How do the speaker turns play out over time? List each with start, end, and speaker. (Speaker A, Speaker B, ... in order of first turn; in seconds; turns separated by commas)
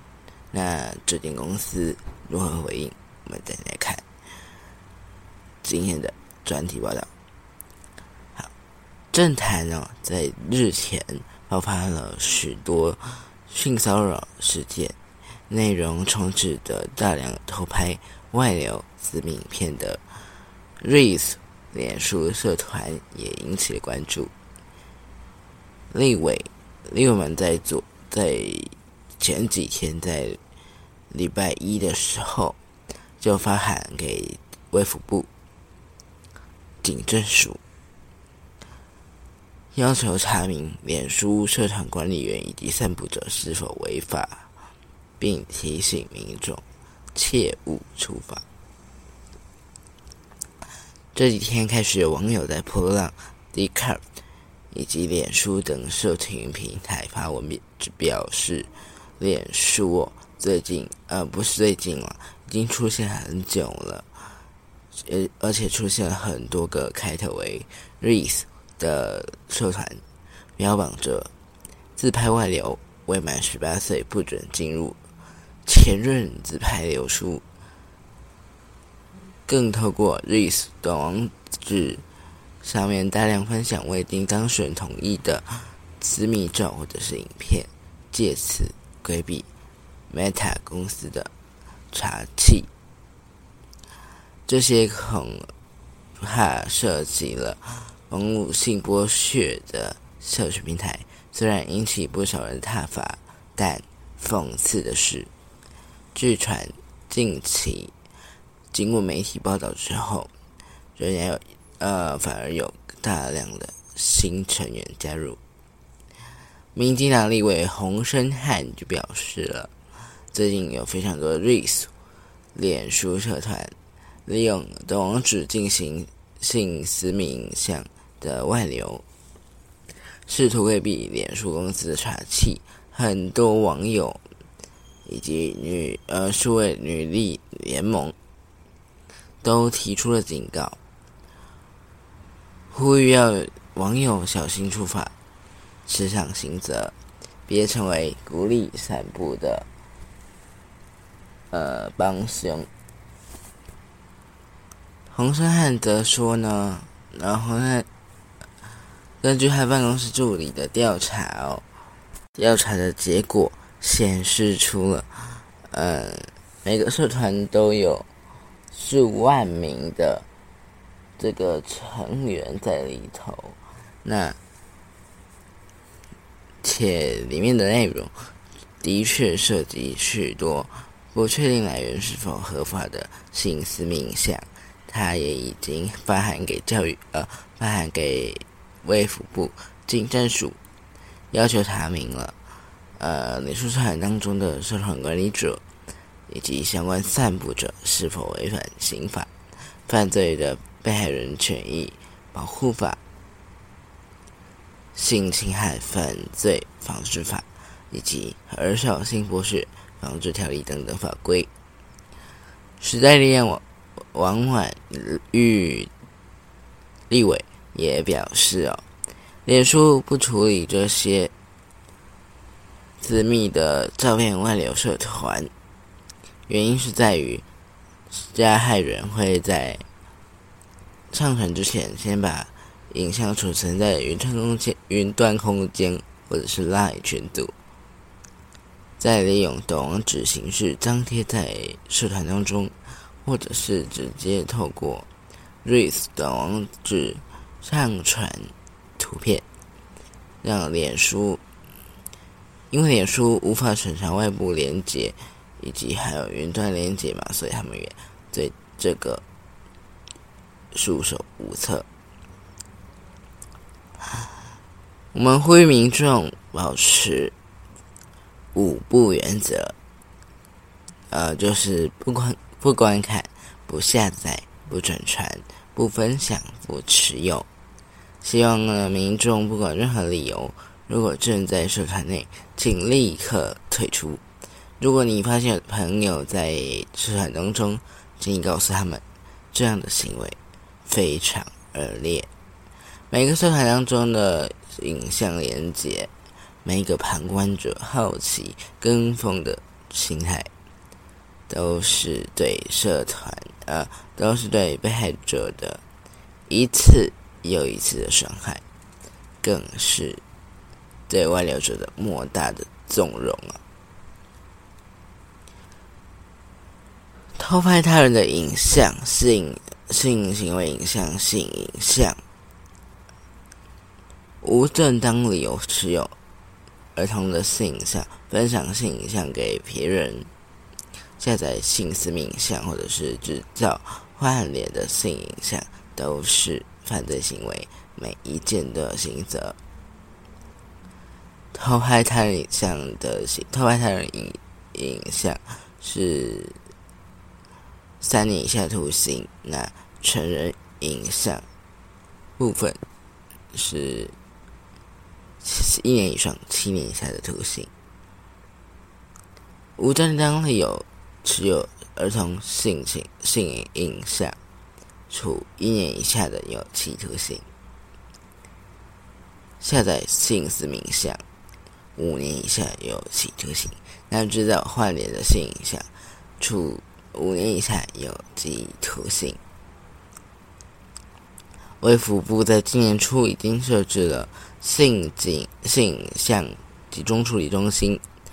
Speaker A: 0.5-4.0, Speaker A: 5.6-7.1, Speaker A: 9.1-14.9, Speaker A: 15.5-20.0, Speaker A: 20.8-24.3, Speaker A: 25.9-30.4, Speaker A: 31.1-32.6, Speaker A: 33.2-35.3, Speaker A: 36.8-37.6, Speaker A: 39.7-44.5, Speaker A: 45.2-46.6, Speaker A: 47.1-48.4, Speaker A: 51.1-54.0, Speaker A: 54.7-64.0, Speaker A: 64.9-70.0, Speaker A: 70.6-71.3, Speaker A: 72.0-75.0, Speaker A: 75.7-77.4, Speaker A: 79.5-82.0, Speaker A: 82.6-89.5, Speaker A: 90.1-91.3, Speaker A: 91.9-92.7, Speaker A: 94.5-95.5, Speaker A: 96.2-105.3, Speaker A: 106.1-107.9, Speaker A: 108.7-110.3, Speaker A: 111.0-115.4, Speaker A: 116.7-119.7, Speaker A: 120.3-121.9, Speaker A: 122.5-123.7, Speaker A: 124.2-129.0, Speaker A: 130.3-134.2, Speaker A: 135.1-138.1, Speaker A: 139.4-140.8, Speaker A: 142.7-145.1, Speaker A: 145.8-146.9, Speaker A: 147.5-149.7, Speaker A: 151.5-152.7, Speaker A: 155.1-157.9, Speaker A: 159.2-161.6, Speaker A: 162.3-168.1, Speaker A: 168.7-170.2, Speaker A: 171.2-174.4, Speaker A: 176.6-190.6, Speaker A: 191.3-192.3, Speaker A: 193.0-195.6, Speaker A: 196.3-199.3, Speaker A: 199.9-203.0, Speaker A: 204.9-211.5, Speaker A: 212.8-213.6, Speaker A: 214.1-215.9, Speaker A: 217.1-218.8, Speaker A: 219.4-221.3, Speaker A: 223.0-225.5, Speaker A: 226.5-227.4, Speaker A: 228.1-229.8, Speaker A: 231.1-237.5, Speaker A: 239.0-245.1, Speaker A: 245.6-249.4, Speaker A: 250.4-251.4, Speaker A: 252.7-259.2, Speaker A: 260.7-261.9, Speaker A: 265.1-267.3, Speaker A: 268.5-269.7, Speaker A: 271.1-277.5, Speaker A: 278.2-284.2, Speaker A: 284.8-292.3, Speaker A: 293.1-296.1, Speaker A: 296.6-300.5, Speaker A: 301.5-305.8, Speaker A: 306.5-308.6, Speaker A: 309.4-310.2, Speaker A: 311.1-313.6, Speaker A: 317.4-322.2, Speaker A: 324.4-326.1, Speaker A: 326.9-330.3, Speaker A: 331.2-339.6, Speaker A: 341.5-346.6, Speaker A: 348.0-351.4, Speaker A: 352.4-352.8, Speaker A: 353.5-354.1, Speaker A: 355.4-357.7, Speaker A: 359.8-364.4, Speaker A: 365.1-367.4, Speaker A: 369.6-371.2, Speaker A: 371.9-375.9, Speaker A: 376.4-379.4, Speaker A: 381.8-388.0